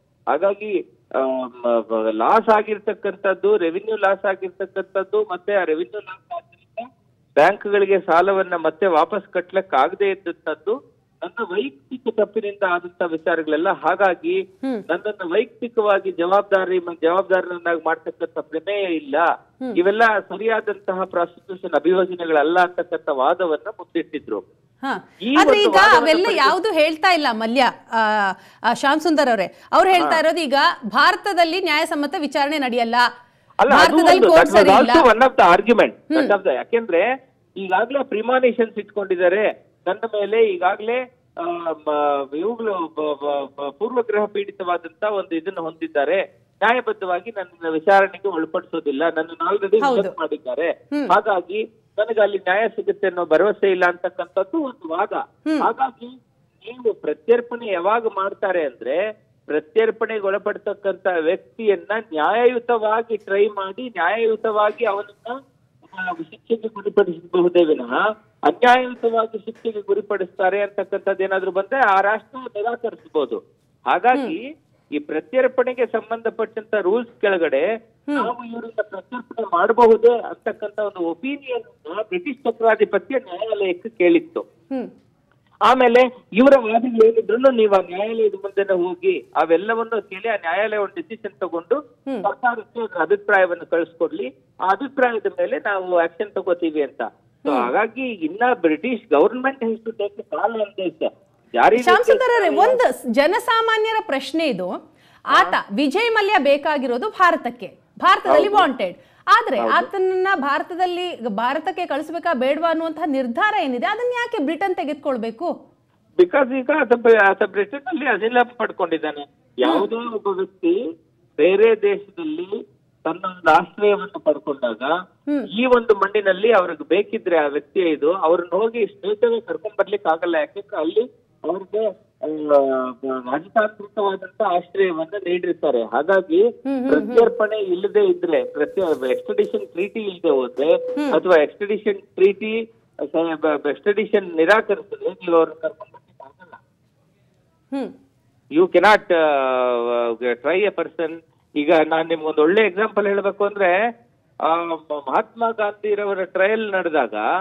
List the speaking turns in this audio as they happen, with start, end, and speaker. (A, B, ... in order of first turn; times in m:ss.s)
0:00.3-0:06.8 A
0:07.4-0:19.2 A
0:19.8-0:24.5 A
0:24.8-0:33.0 B
0:25.2-0:26.6 A
0:30.0-0:30.2 A
0:33.6-0:37.0 A
0:33.7-0:35.0 B
0:37.6-0:59.0 A
0:49.8-0:50.1 B
0:59.5-1:14.4 A
1:15.0-1:24.4 A
1:25.7-1:42.8 A
1:41.8-1:44.7 B
1:45.3-1:55.5 B
1:48.3-1:48.7 A
1:49.6-1:49.9 A
1:56.2-2:00.7 A
2:01.4-2:02.5 A
2:03.0-2:04.9 A
2:05.5-2:22.5 A
2:16.6-2:17.3 B
2:23.1-2:26.6 A
2:28.6-2:33.7 A
2:34.5-2:37.2 A